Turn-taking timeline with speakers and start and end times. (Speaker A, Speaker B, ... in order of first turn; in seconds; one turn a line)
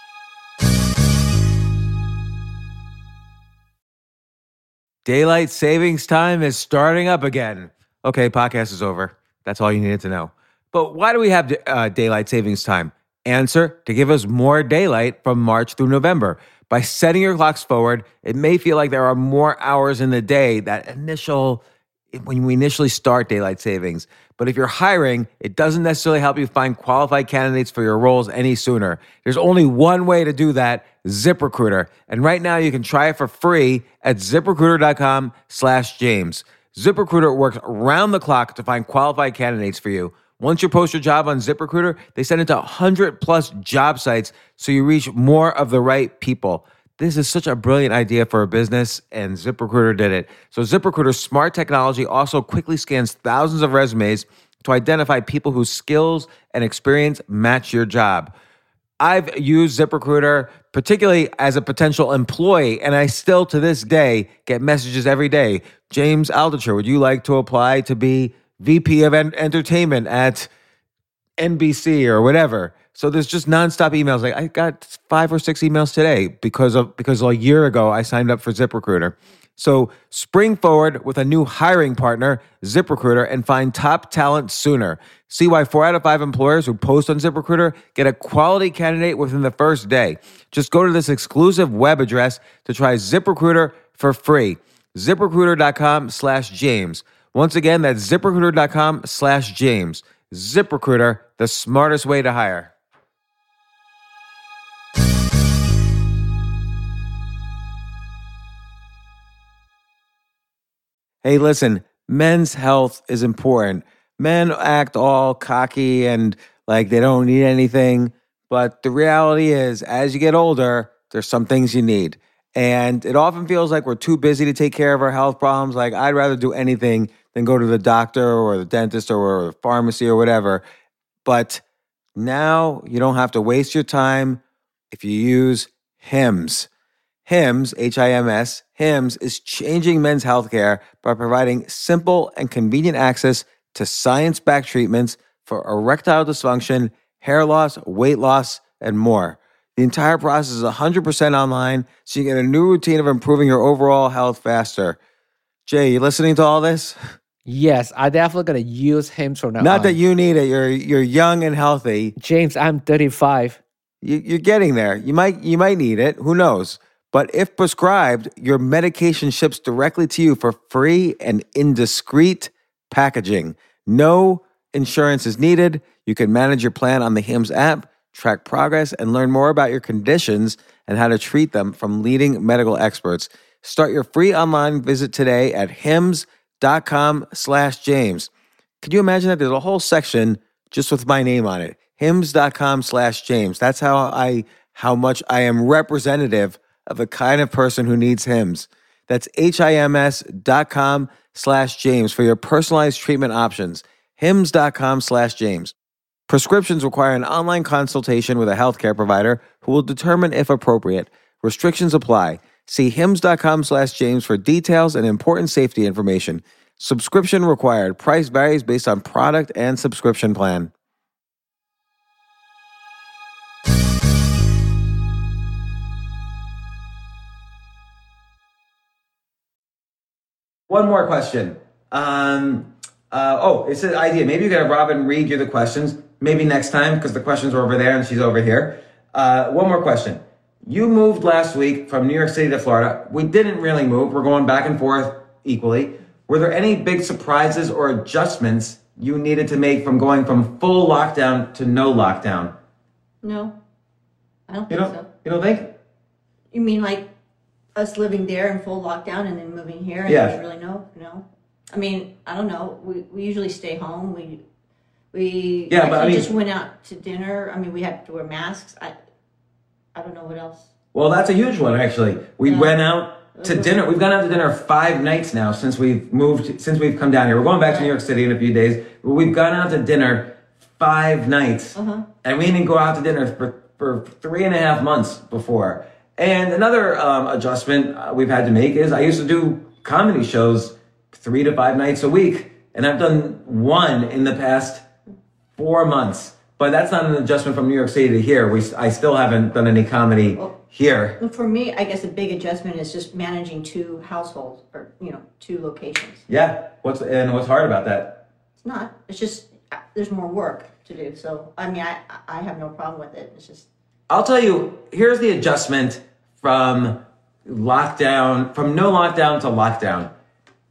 Speaker A: 5.0-58.3
Speaker A: 59.0-70.5
Speaker A: 71.4-102.7
Speaker A: 111.2-130.6
Speaker A: 131.2-131.6
Speaker A: 132.2-136.7
Speaker A: 137.3-155.0
Speaker A: 155.7-157.0
Speaker B: 157.5-160.0
Speaker A: 159.6-162.2
Speaker B: 162.2-163.6
Speaker A: 164.0-205.8
Speaker A: 206.3-220.7
Speaker A: 230.7-252.5
Speaker C: 253.2-253.5
Speaker C: 254.5-255.1
Speaker A: 254.7-255.7
Speaker C: 256.5-257.1
Speaker C: 257.8-264.4
Speaker A: 260.1-260.4
Speaker C: 265.1-268.9
Speaker A: 265.7-266.3
Speaker C: 269.9-270.7
Speaker A: 270.9-294.8
Speaker C: 272.5-272.7
Speaker C: 273.4-273.7
Speaker C: 281.8-282.1
Speaker A: 295.6-301.2
Speaker C: 301.2-306.2
Speaker A: 306.3-308.2
Speaker C: 308.6-313.7
Speaker A: 314.1-320.1